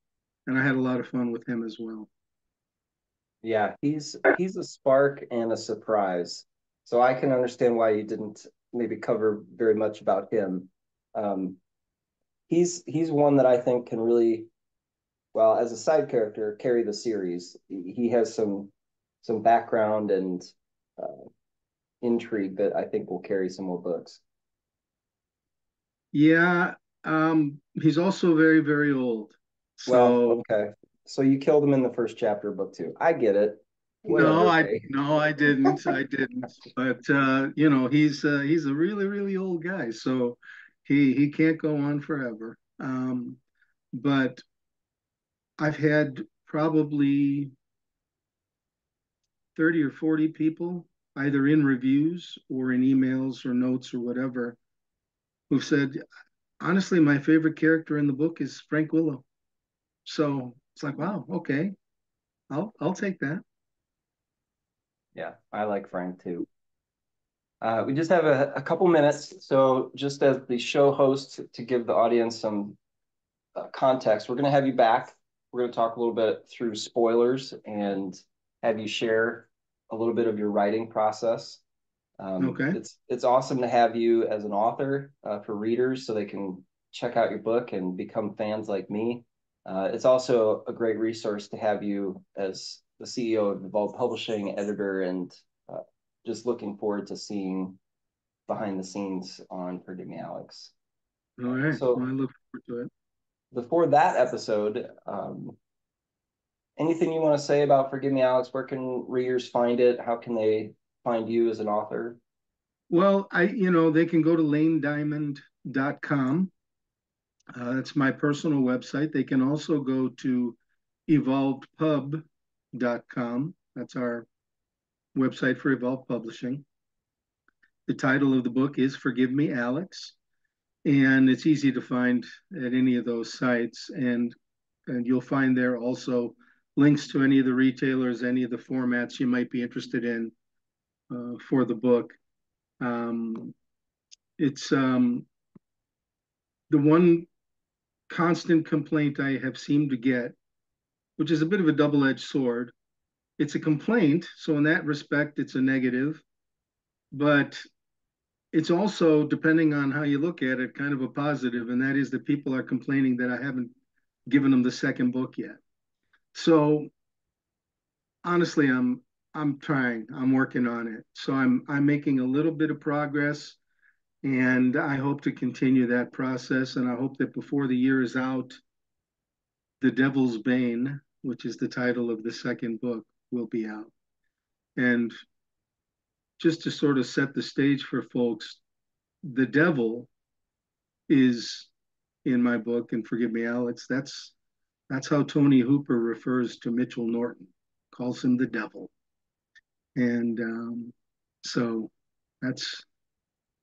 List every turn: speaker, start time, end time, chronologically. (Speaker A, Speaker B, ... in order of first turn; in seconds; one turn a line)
Speaker A: 0.5-2.1
Speaker B: 3.4-11.6
Speaker B: 12.5-14.5
Speaker B: 15.3-18.7
Speaker B: 19.2-21.3
Speaker B: 22.0-24.2
Speaker A: 26.1-30.4
Speaker B: 29.9-34.9
Speaker A: 34.1-43.4
Speaker A: 43.9-44.4
Speaker A: 45.6-47.5
Speaker A: 49.5-54.6
Speaker A: 55.5-56.0
Speaker A: 56.6-59.2
Speaker A: 60.0-61.7
Speaker A: 62.5-63.4
Speaker B: 65.1-66.5
Speaker B: 67.6-72.8
Speaker B: 73.5-81.6
Speaker B: 82.2-97.8
Speaker A: 82.4-82.8
Speaker B: 98.5-100.7
Speaker A: 101.4-102.9
Speaker B: 101.5-102.0
Speaker B: 103.5-105.6
Speaker B: 106.8-112.2
Speaker A: 112.9-116.5
Speaker A: 117.5-124.2
Speaker A: 125.1-126.6
Speaker A: 127.9-130.1
Speaker A: 130.8-134.3
Speaker A: 134.9-140.3
Speaker A: 141.1-142.2
Speaker A: 142.8-143.5
Speaker A: 144.4-145.3
Speaker A: 146.7-147.3
Speaker A: 148.1-150.3
Speaker A: 151.2-152.7
Speaker A: 153.4-156.2
Speaker A: 157.1-157.6
Speaker A: 158.5-163.7
Speaker A: 164.3-165.6
Speaker A: 166.3-166.9
Speaker A: 168.2-173.6
Speaker A: 174.2-178.6
Speaker A: 179.8-183.9
Speaker A: 184.8-185.1
Speaker A: 186.4-188.6
Speaker A: 189.2-190.1
Speaker A: 191.1-191.7
Speaker A: 192.2-194.3
Speaker A: 194.9-198.9
Speaker A: 199.9-202.8